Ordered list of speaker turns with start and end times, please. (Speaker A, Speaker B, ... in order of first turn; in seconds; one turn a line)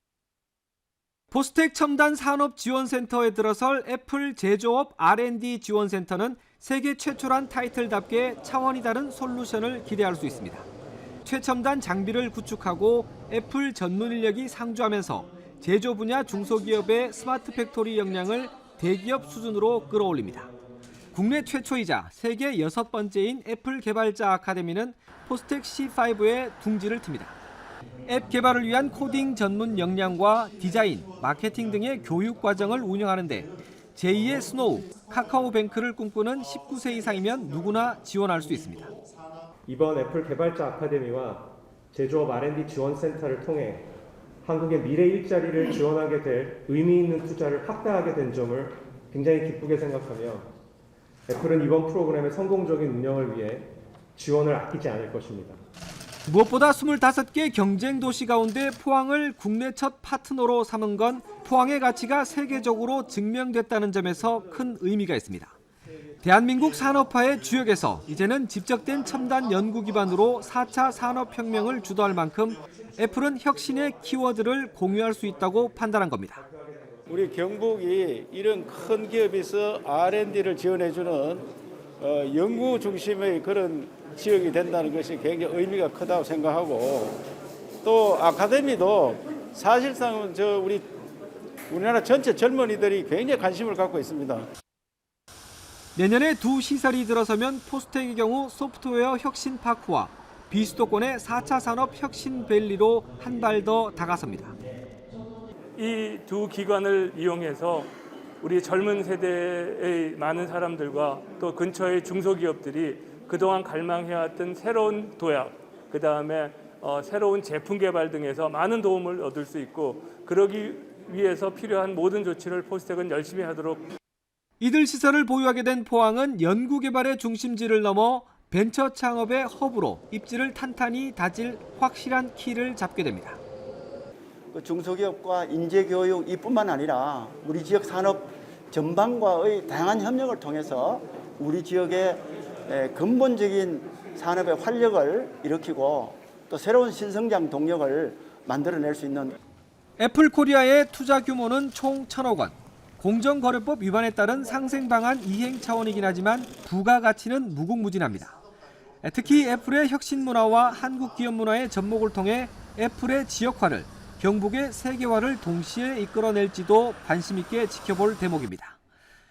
Speaker A: 1.3-10.7
Speaker A: 11.2-20.5
Speaker A: 21.1-27.4
Speaker A: 28.1-38.9
Speaker B: 39.7-43.9
Speaker B: 44.4-50.5
Speaker B: 51.3-55.6
Speaker A: 56.3-65.5
Speaker A: 66.2-76.4
Speaker C: 77.1-81.5
Speaker C: 82.0-87.2
Speaker C: 87.8-90.9
Speaker C: 91.7-94.5
Speaker A: 95.9-104.5
Speaker D: 105.8-107.9
Speaker D: 108.4-123.9
Speaker A: 124.6-133.4
Speaker E: 134.5-149.3
Speaker A: 150.0-158.4
Speaker A: 159.0-168.8